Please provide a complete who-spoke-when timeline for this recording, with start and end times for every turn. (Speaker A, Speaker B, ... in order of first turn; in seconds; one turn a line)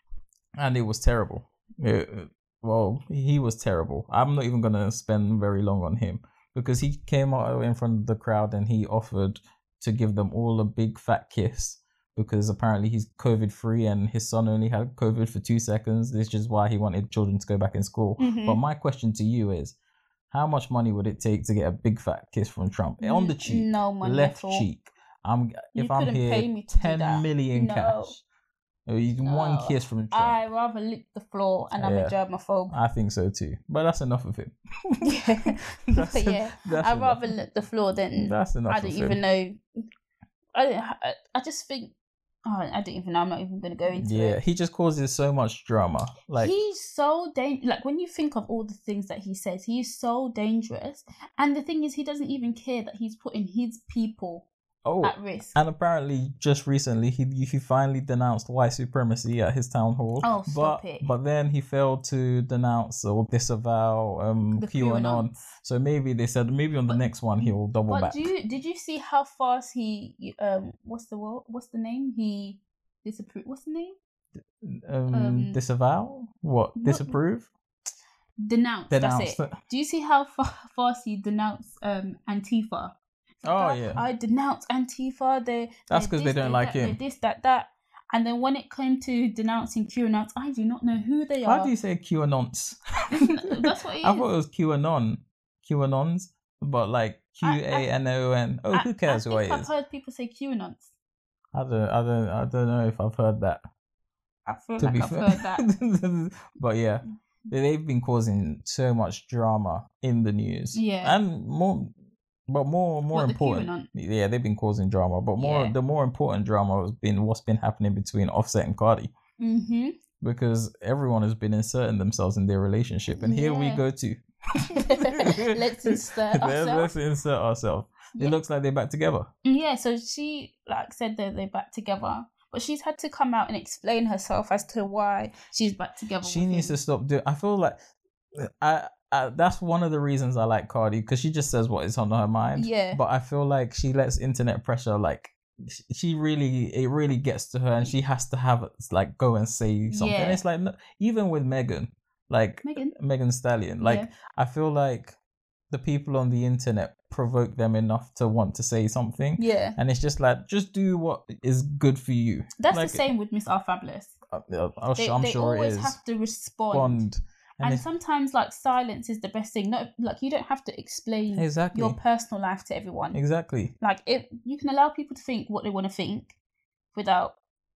Speaker A: 0.6-19.7
Speaker B: 18.2-18.6
Speaker A: 20.3-28.2
Speaker B: 23.0-24.7
Speaker B: 25.7-28.1
Speaker A: 28.9-30.4
Speaker B: 29.2-32.7
Speaker A: 31.8-32.2
Speaker A: 32.7-35.1
Speaker B: 35.0-39.6
Speaker A: 35.9-37.3
Speaker A: 38.1-39.2
Speaker B: 40.5-41.9
Speaker B: 42.4-44.4
Speaker A: 43.9-46.5
Speaker B: 46.4-54.5
Speaker A: 54.8-68.3
Speaker B: 55.0-55.6
Speaker B: 60.2-61.1
Speaker B: 64.6-65.3
Speaker B: 66.9-74.0
Speaker A: 74.6-77.5
Speaker B: 75.1-75.6
Speaker B: 76.8-77.2
Speaker B: 78.4-82.9
Speaker A: 78.9-79.5
Speaker A: 83.4-84.0
Speaker B: 83.5-91.7
Speaker A: 85.9-87.0
Speaker A: 91.4-99.7
Speaker B: 93.1-94.3
Speaker B: 97.4-97.9
Speaker B: 98.7-100.9
Speaker A: 101.5-103.6
Speaker B: 104.5-105.7
Speaker A: 104.8-111.9
Speaker B: 110.7-111.2
Speaker A: 112.5-119.1
Speaker B: 113.1-113.9
Speaker B: 115.4-115.7
Speaker B: 119.4-120.0
Speaker A: 120.2-129.3
Speaker B: 123.1-123.8
Speaker B: 124.7-126.9
Speaker B: 129.4-136.7
Speaker A: 136.2-137.8
Speaker A: 138.3-155.2
Speaker B: 142.5-143.0
Speaker B: 149.9-150.4
Speaker B: 152.6-152.9
Speaker B: 153.8-154.1
Speaker A: 155.7-163.0
Speaker B: 159.4-159.8
Speaker B: 162.6-164.2
Speaker A: 164.3-166.0
Speaker B: 165.0-167.0
Speaker A: 166.7-167.8
Speaker B: 167.6-173.2
Speaker A: 171.3-172.0
Speaker A: 173.1-173.7
Speaker B: 173.8-176.3
Speaker B: 176.9-177.3